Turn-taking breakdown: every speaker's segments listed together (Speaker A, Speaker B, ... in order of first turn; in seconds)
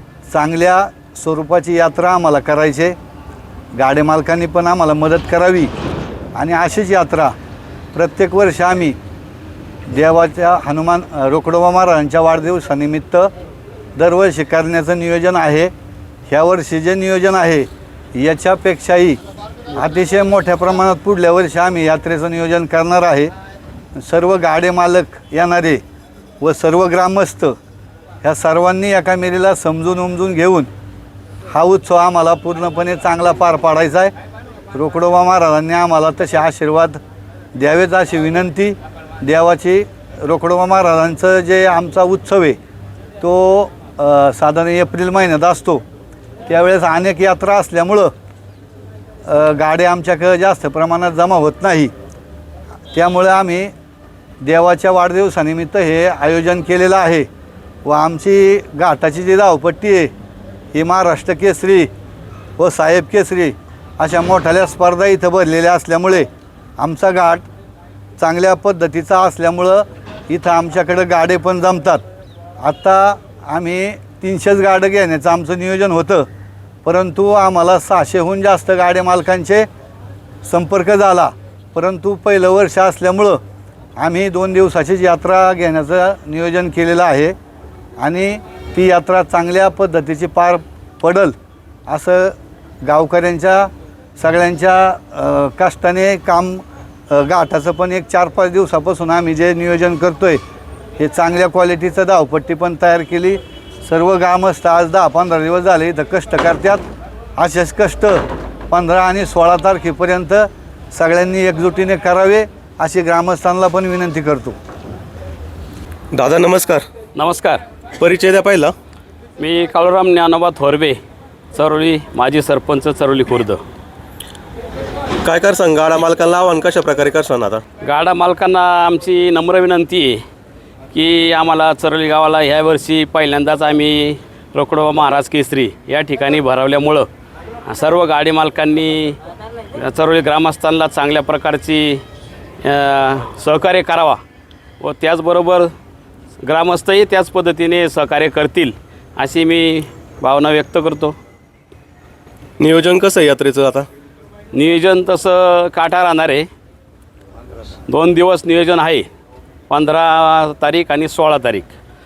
Speaker A: 0.3-3.0, 3.8-5.7, 6.3-7.3, 7.9-8.9, 9.9-13.3, 14.0-15.7, 16.3-19.2, 19.8-23.3, 24.0-25.8, 26.4-27.5, 28.2-30.7, 31.5-34.1, 34.7-37.0, 37.6-42.6, 43.2-45.8, 46.5-48.1, 49.3-51.9, 52.9-53.7, 54.4-57.2, 57.8-60.1, 60.7-61.9, 62.6-66.3, 66.8-67.5, 68.2-72.0, 72.6-76.2, 76.8-79.7, 80.4-83.4, 84.0-87.3, 88.0-91.3, 91.9-100.4, 101.0-106.8, 107.4-114.5
Speaker B: 116.1-116.8, 118.0-118.7, 125.2-127.6, 152.6-153.9
Speaker C: 117.1-117.6, 119.4-121.0, 121.5-123.6, 127.8-130.2, 130.9-137.1, 137.7-139.2, 139.8-142.0, 142.6-144.2, 144.8-145.7, 146.4-151.2, 154.5-156.5, 157.9-159.1, 159.7-161.7